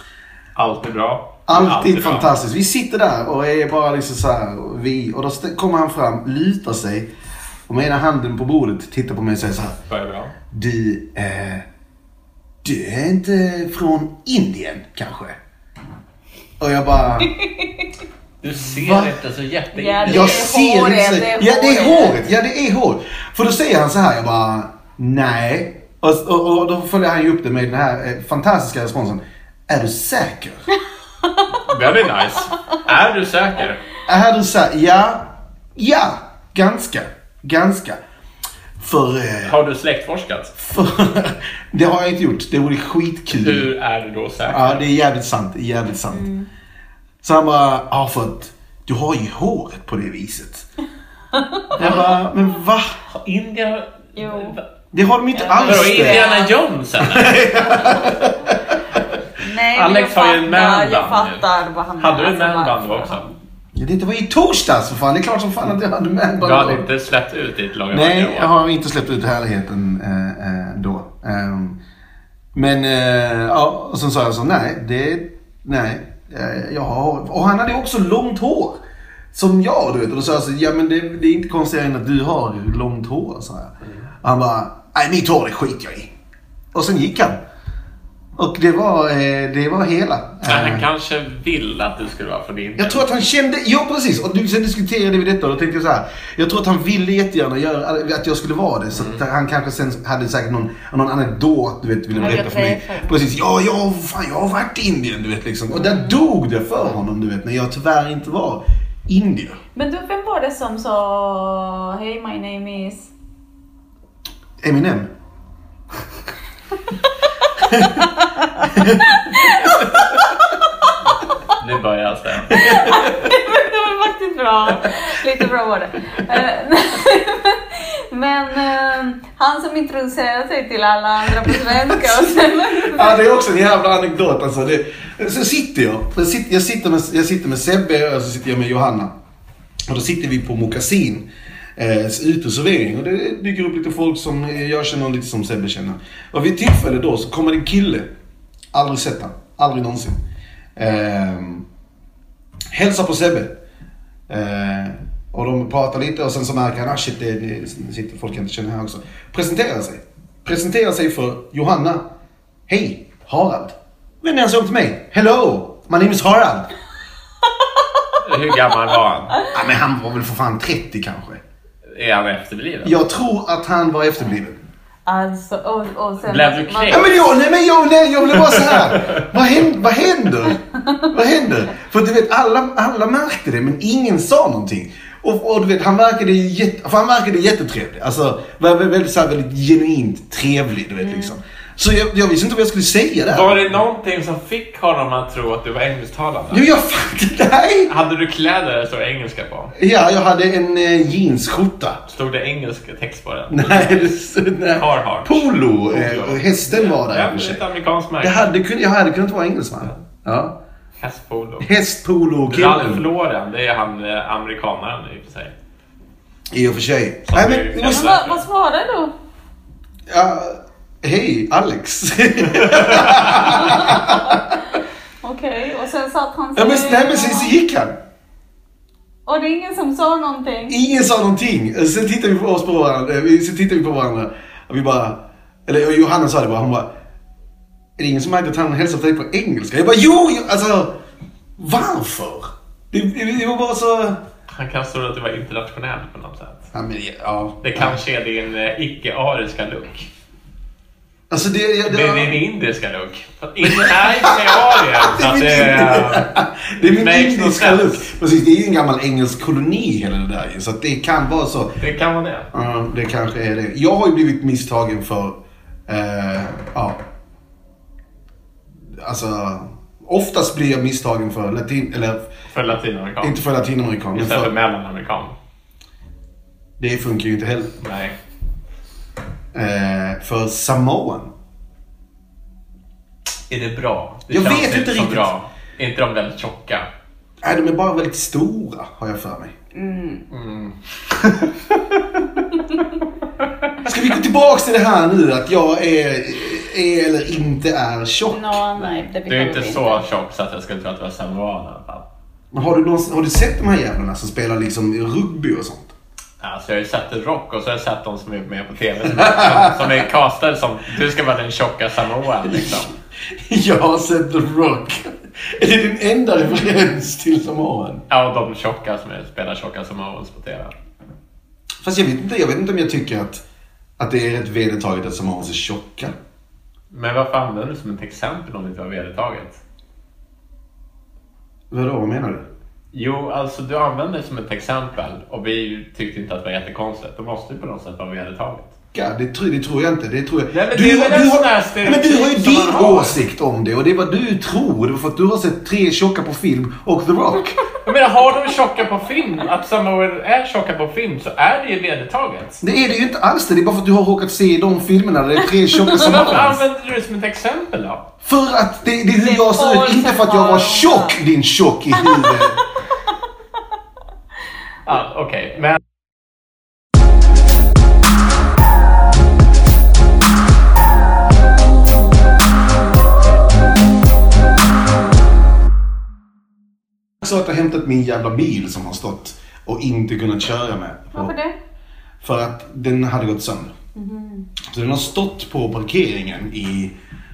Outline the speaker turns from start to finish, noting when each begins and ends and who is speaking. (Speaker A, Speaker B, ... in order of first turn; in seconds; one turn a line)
Speaker A: 0.6-2.3
Speaker B: 1.5-7.1
Speaker B: 7.7-9.8
Speaker A: 9.9-10.3
Speaker B: 10.5-11.7
Speaker B: 12.6-15.4
Speaker B: 16.6-17.4
Speaker C: 17.4-17.7
Speaker A: 18.4-20.5
Speaker B: 18.7-19.1
Speaker C: 19.7-22.2
Speaker B: 20.0-30.6
Speaker A: 31.7-33.8
Speaker B: 34.1-38.0
Speaker B: 38.8-39.6
Speaker A: 39.4-40.5
Speaker B: 40.6-43.7
Speaker A: 43.3-44.9
Speaker B: 44.5-46.3
Speaker C: 46.1-46.5
Speaker B: 47.2-50.7
Speaker C: 51.3-51.7
Speaker B: 51.7-53.0
Speaker A: 51.8-52.2
Speaker A: 53.1-54.6
Speaker C: 54.1-54.6
Speaker B: 54.9-56.3
Speaker C: 55.3-56.6
Speaker A: 55.6-57.4
Speaker B: 57.0-58.8
Speaker C: 59.4-63.4
Speaker A: 59.7-61.5
Speaker A: 62.0-63.3
Speaker B: 63.8-66.9
Speaker A: 66.4-68.5
Speaker B: 67.9-71.8
Speaker B: 72.5-78.8
Speaker B: 79.3-86.1
Speaker B: 86.7-87.4
Speaker B: 88.4-90.8
Speaker A: 90.4-93.0
Speaker B: 92.8-109.6
Speaker C: 102.2-103.2
Speaker C: 105.8-106.2
Speaker C: 109.8-113.1
Speaker B: 114.6-115.1
Speaker B: 117.6-118.0
Speaker B: 118.6-119.2
Speaker C: 119.0-120.9
Speaker A: 121.5-123.0
Speaker C: 122.5-133.2
Speaker B: 131.4-139.1
Speaker B: 139.9-148.1
Speaker B: 148.7-150.2
Speaker B: 150.8-151.7
Speaker B: 152.7-153.6
Speaker B: 154.3-162.1
Speaker B: 162.7-166.7
Speaker A: 168.2-169.4
Speaker B: 169.5-171.4
Speaker A: 171.9-172.9
Speaker B: 172.8-174.6
Speaker C: 175.1-177.2
Speaker A: 176.2-177.2
Speaker B: 176.9-193.8
Speaker A: 178.4-179.2
Speaker C: 191.0-191.3
Speaker A: 193.3-196.7
Speaker B: 196.5-197.9
Speaker A: 197.9-199.7
Speaker B: 199.8-202.0
Speaker A: 202.1-204.2
Speaker B: 203.5-207.6
Speaker A: 204.7-208.6
Speaker B: 208.2-210.6
Speaker A: 211.0-211.7
Speaker B: 211.6-213.1
Speaker A: 212.5-215.6
Speaker B: 216.5-218.1
Speaker A: 217.3-218.4
Speaker C: 217.8-219.1
Speaker B: 220.1-224.6
Speaker A: 222.6-223.6
Speaker C: 223.7-224.4
Speaker C: 225.2-227.5
Speaker B: 226.6-228.0
Speaker C: 229.3-230.8
Speaker B: 230.7-236.9
Speaker B: 238.0-241.0
Speaker B: 241.6-244.2
Speaker A: 244.5-246.7
Speaker B: 246.7-248.0
Speaker A: 247.6-250.1
Speaker B: 251.3-252.4
Speaker A: 251.9-256.3
Speaker B: 253.6-261.8
Speaker A: 256.8-258.1
Speaker A: 261.8-262.5
Speaker B: 262.5-267.0
Speaker B: 268.9-272.3
Speaker A: 272.5-273.4
Speaker B: 273.2-274.5
Speaker A: 274.1-275.4
Speaker B: 276.8-277.8
Speaker A: 277.8-278.2
Speaker B: 279.5-281.3
Speaker A: 283.5-286.9
Speaker B: 284.3-285.3
Speaker B: 287.4-289.5
Speaker C: 289.7-290.2
Speaker A: 290.3-291.5
Speaker B: 293.8-298.6
Speaker C: 298.3-300.0
Speaker A: 298.8-302.1
Speaker B: 302.5-305.9
Speaker A: 306.4-312.9
Speaker B: 309.2-309.9
Speaker B: 313.4-318.1
Speaker A: 318.1-320.8
Speaker B: 321.8-323.4
Speaker B: 324.0-326.1
Speaker A: 326.9-329.6
Speaker B: 331.7-332.5
Speaker A: 332.9-338.7
Speaker B: 338.9-347.6
Speaker A: 340.5-343.2
Speaker A: 347.8-352.6
Speaker B: 352.6-356.6
Speaker A: 355.9-358.1
Speaker B: 358.2-362.6
Speaker C: 359.2-361.2
Speaker C: 362.0-362.4
Speaker A: 364.9-365.8
Speaker B: 377.2-381.3
Speaker C: 381.1-381.6
Speaker B: 382.2-383.7
Speaker C: 383.9-384.5
Speaker B: 384.7-386.9